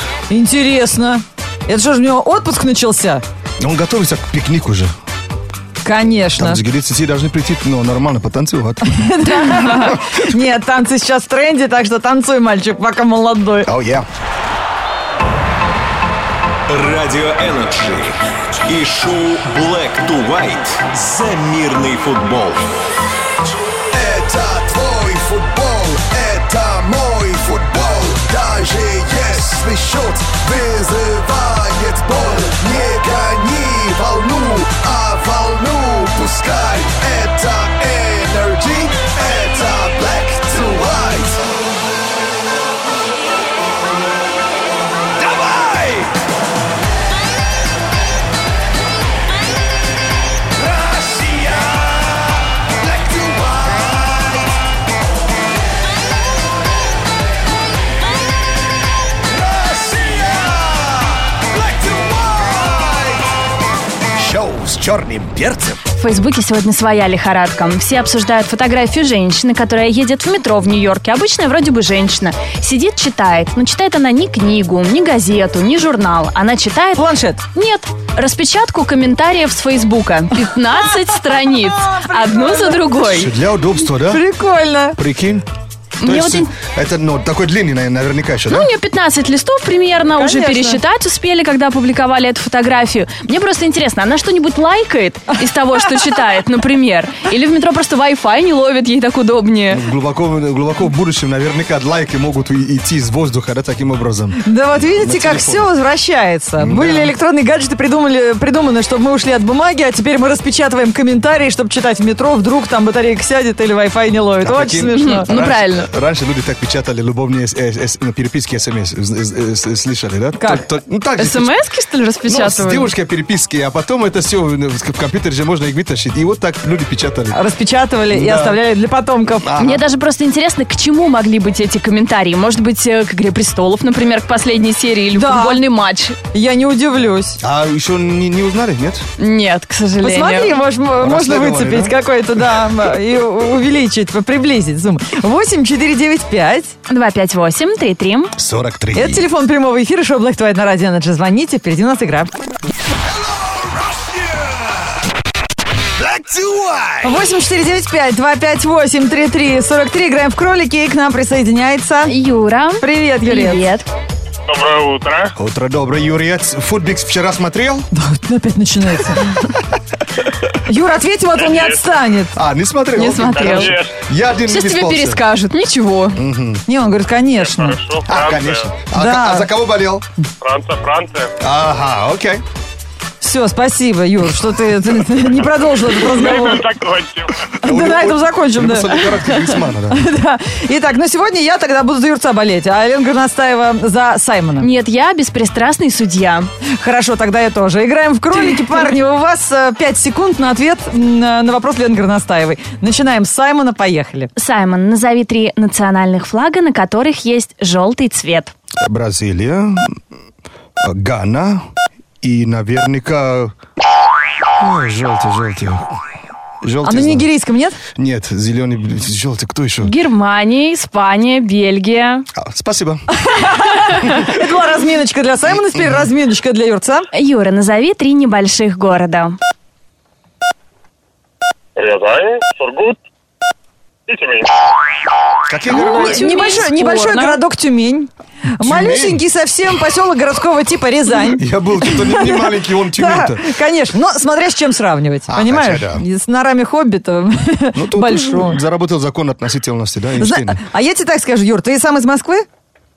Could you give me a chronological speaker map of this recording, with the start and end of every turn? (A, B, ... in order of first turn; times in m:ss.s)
0:00.3-0:03.2 A
0:03.6-0:04.9 B
0:05.8-0:06.6 A
0:06.3-0:09.1 B
0:08.8-0:13.7 A
0:09.7-0:10.2 B
0:13.6-0:14.0 B
0:16.7-0:22.6 C
0:23.9-0:41.4 B
0:45.2-0:46.1 B
0:50.7-0:52.0 B
0:52.8-0:54.4 B
0:59.5-1:03.1 B
1:04.1-1:05.8 B
1:06.0-1:23.3 D
1:17.0-1:17.4 A
1:20.6-1:23.0 A
1:23.0-1:24.2 B
1:23.8-1:25.0 A
1:25.0-1:25.4 B
1:26.0-1:26.5 D
1:26.0-1:28.7 B
1:28.5-1:39.8 D
1:30.1-1:30.8 A
1:39.7-1:45.7 B
1:44.4-1:55.3 A
1:46.6-1:47.1 B
1:54.4-2:01.6 B
1:54.9-1:55.9 D
2:00.4-2:00.6 A
2:01.2-2:02.9 D
2:02.2-2:07.4 B
2:07.3-2:09.5 A
2:08.1-2:08.6 B
2:09.3-2:09.8 B
2:09.6-2:16.2 D
2:15.1-2:15.6 A
2:16.3-2:17.4 A
2:17.4-2:19.0 B
2:19.2-2:20.6 D
2:20.0-2:26.7 A
2:21.0-2:21.9 B
2:26.9-2:28.4 D
2:28.4-2:29.2 B
2:28.9-2:32.3 A
2:33.2-2:34.8 B
2:35.9-2:37.2 B
2:37.0-2:42.1 A
2:42.0-2:43.9 D
2:42.8-2:43.6 A
2:44.5-2:45.3 E
2:45.4-2:47.9 B
2:47.9-2:49.4 A
2:50.6-2:52.3 A
2:51.4-2:51.8 E
2:52.3-2:55.2 B
2:53.0-2:53.8 D
2:53.2-2:53.9 E
2:54.5-2:56.2 D
2:56.1-2:56.6 B
2:56.6-2:57.8 A
2:57.4-2:58.7 E
2:58.0-3:00.0 B
2:58.9-2:59.5 A
3:00.4-3:01.3 E
3:01.4-3:02.4 B
3:03.2-3:06.7 A
3:06.0-3:07.5 E
3:07.6-3:10.0 B
3:07.6-3:14.7 A
3:14.6-3:16.5 D
3:16.8-3:24.3 A
3:24.4-3:28.5 D
3:28.8-3:30.0 B
3:30.8-3:31.7 B
3:32.2-3:33.5 B
3:34.6-3:35.9 B
3:36.6-3:37.3 B
3:36.8-3:37.8 A
3:38.0-3:39.9 B
3:39.8-3:42.2 D
3:42.3-3:43.0 B
3:43.2-3:47.1 A
3:47.1-3:49.4 D
3:51.8-3:53.0 E
3:54.1-3:54.7 E
3:55.5-3:56.2 B
3:55.7-3:57.4 D
3:55.7-4:08.6 A
3:58.6-3:59.2 B
4:01.3-4:03.5 B
4:05.3-4:06.0 B
4:07.7-4:10.6 B
4:10.2-4:12.4 A